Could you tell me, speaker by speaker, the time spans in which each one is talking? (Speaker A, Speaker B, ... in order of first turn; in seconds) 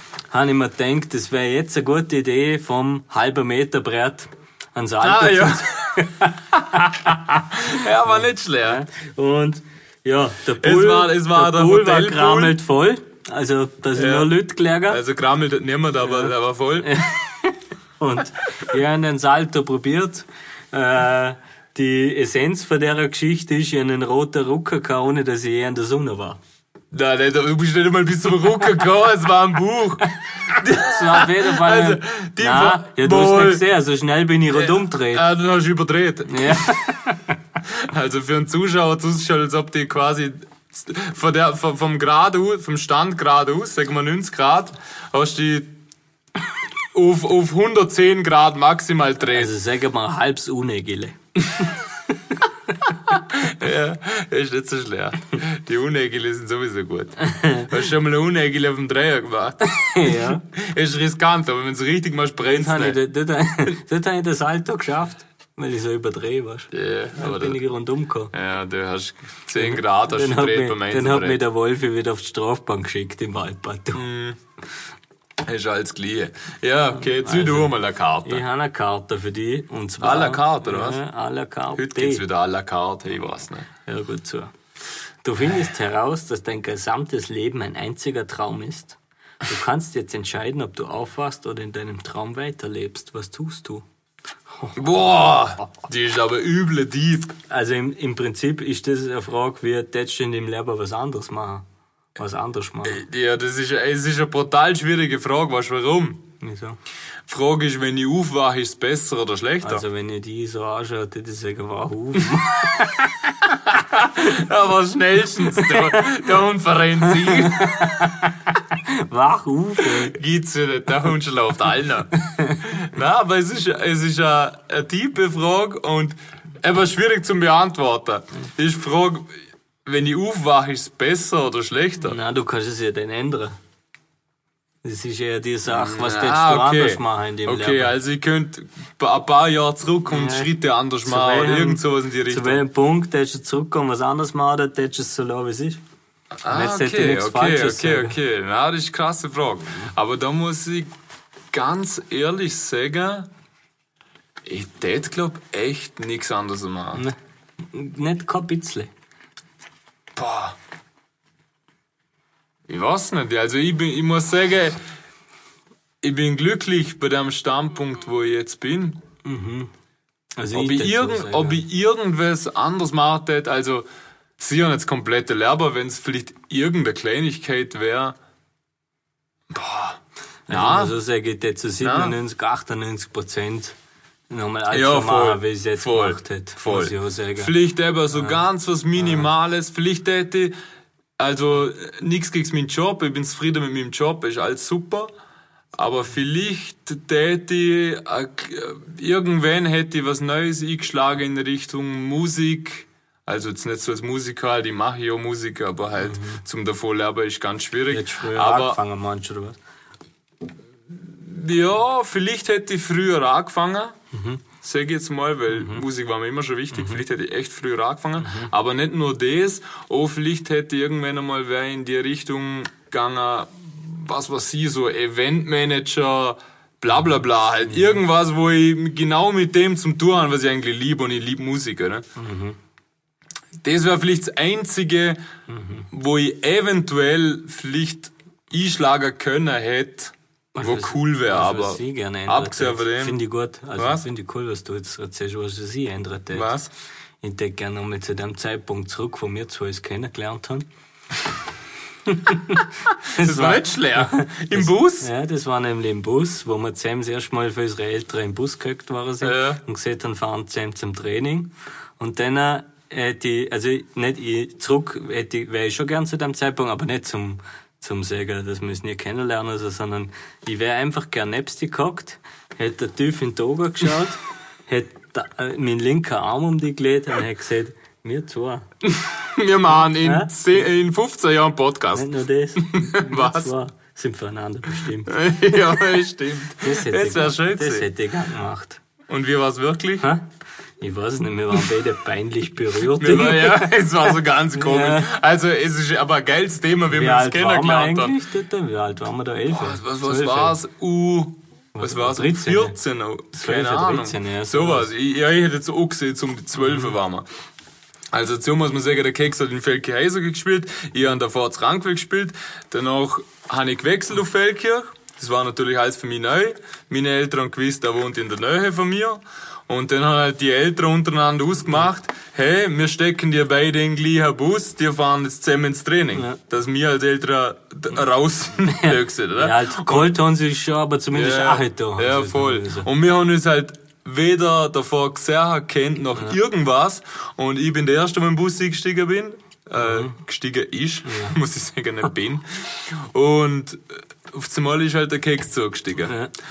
Speaker A: 0.3-15.0, 16.0-26.4, 30.5-35.2, 36.3-37.4, 49.3-51.2, 57.2-57.7, 59.6-60.4, 62.5-68.3, 69.5-74.0, 77.0-77.7, 78.2-82.2, 83.9-84.5, 85.2-93.8, 97.5-101.6, 102.2-103.0, 106.4-106.8, 109.6-113.3, 115.5-116.0, 117.1-120.2, 122.2-122.6, 132.0-133.6, 134.8-137.9, 140.1-140.5, 141.0-145.8, 146.5-148.2, 157.7-158.9, 169.2-169.7, 170.4-171.6, 180.5-183.8, 184.3-187.5, 188.1-188.4, 189.0-189.3, 206.0-206.4, 207.9-209.6, 214.1-214.4, 215.5-215.8, 216.7-217.0, 218.2-218.5, 232.2-232.6, 235.5-235.9, 240.5-246.5, 247.2-250.7, 252.1-278.6, 280.0-280.3, 281.9-285.1, 286.6-288.8, 290.8-295.1, 296.9-300.6, 301.7-302.8, 303.3-304.9, 306.6-306.9, 328.6-332.9, 339.8-340.1, 341.0-341.4, 346.1-346.3
Speaker B: 5.0-6.1, 7.5-8.8, 10.6-12.6, 13.9-14.3, 14.9-16.9, 26.9-33.6, 34.5-36.8, 37.7-45.8, 46.9-49.5, 53.1-63.0, 66.7-67.6, 68.3-71.4, 73.9-74.4, 75.4-78.4, 80.0-81.0, 81.8-83.7, 94.8-97.3, 102.8-106.2, 107.3-109.8, 113.8-118.1, 120.0-122.1, 122.6-132.2, 135.7-142.6, 146.4-150.9, 151.5-153.3, 154.4-157.0, 160.2-160.6, 162.7-164.8, 166.0-169.0, 170.5-173.8, 174.4-178.2, 179.5-180.9, 181.8-182.2, 184.7-190.5, 191.2-195.1, 195.7-208.8, 210.9-214.0, 214.6-232.0, 233.6-235.2, 235.9-243.2, 243.7-244.0, 246.3-246.7, 253.2-255.1, 259.2-259.6, 278.8-283.5, 285.1-287.9, 289.1-290.1, 292.9-298.1, 299.5-307.2, 308.1-330.1, 331.1-346.1